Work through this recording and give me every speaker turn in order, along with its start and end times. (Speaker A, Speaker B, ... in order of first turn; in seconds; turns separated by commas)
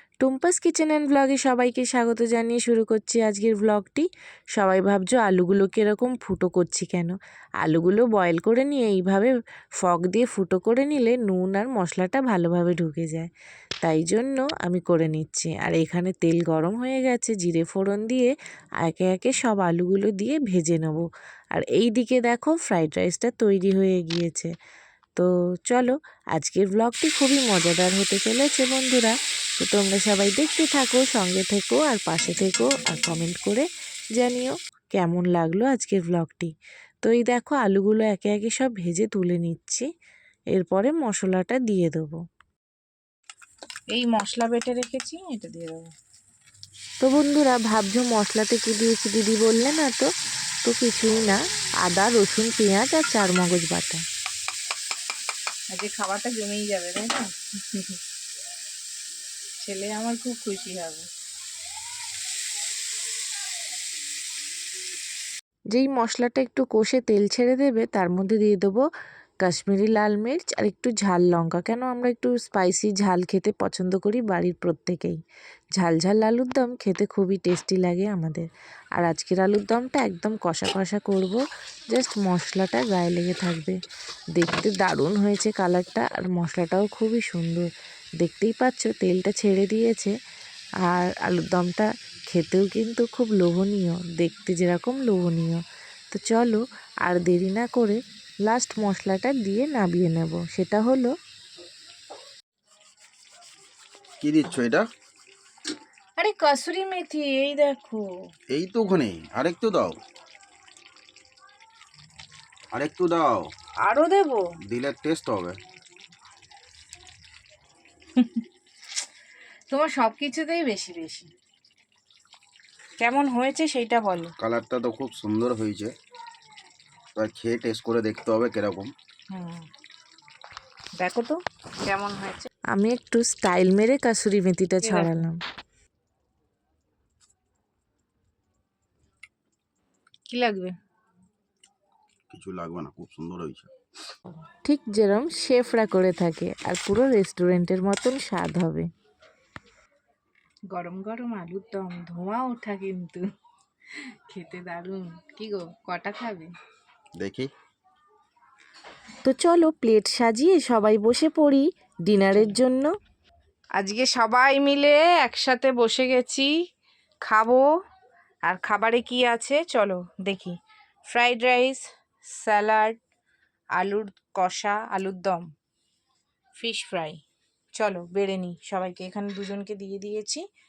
Speaker A: 0.2-13.3, Speaker A: 13.8-24.5, Speaker A: 25.2-36.5, Speaker A: 37.0-39.9, Speaker A: 40.5-42.2, Speaker B: 43.9-45.9, Speaker A: 47.0-50.1, Speaker A: 50.6-54.0, Speaker B: 55.7-58.0, Speaker B: 59.6-61.1, Speaker A: 65.7-68.9, Speaker A: 69.4-75.2, Speaker A: 75.8-83.8, Speaker A: 84.4-87.7, Speaker A: 88.2-90.1, Speaker A: 90.9-101.1, Speaker C: 104.2-104.8, Speaker B: 106.2-108.3, Speaker C: 108.5-110.0, Speaker C: 112.7-113.5, Speaker B: 113.8-114.5, Speaker C: 114.7-115.6, Speaker B: 118.2-118.4, Speaker B: 119.7-121.3, Speaker B: 123.0-124.3, Speaker C: 124.4-125.9, Speaker C: 127.2-128.9, Speaker B: 129.3-129.7, Speaker B: 131.0-132.5, Speaker A: 132.7-135.4, Speaker B: 134.8-135.1, Speaker B: 140.3-140.8, Speaker C: 142.3-143.7, Speaker A: 144.6-148.9, Speaker B: 150.7-153.2, Speaker B: 154.3-156.5, Speaker C: 157.2-157.5, Speaker A: 159.2-162.9, Speaker B: 163.8-166.5, Speaker B: 167.3-167.7, Speaker B: 168.5-170.6, Speaker B: 171.1-173.0, Speaker B: 173.8-175.4, Speaker B: 176.6-177.2, Speaker B: 177.8-180.4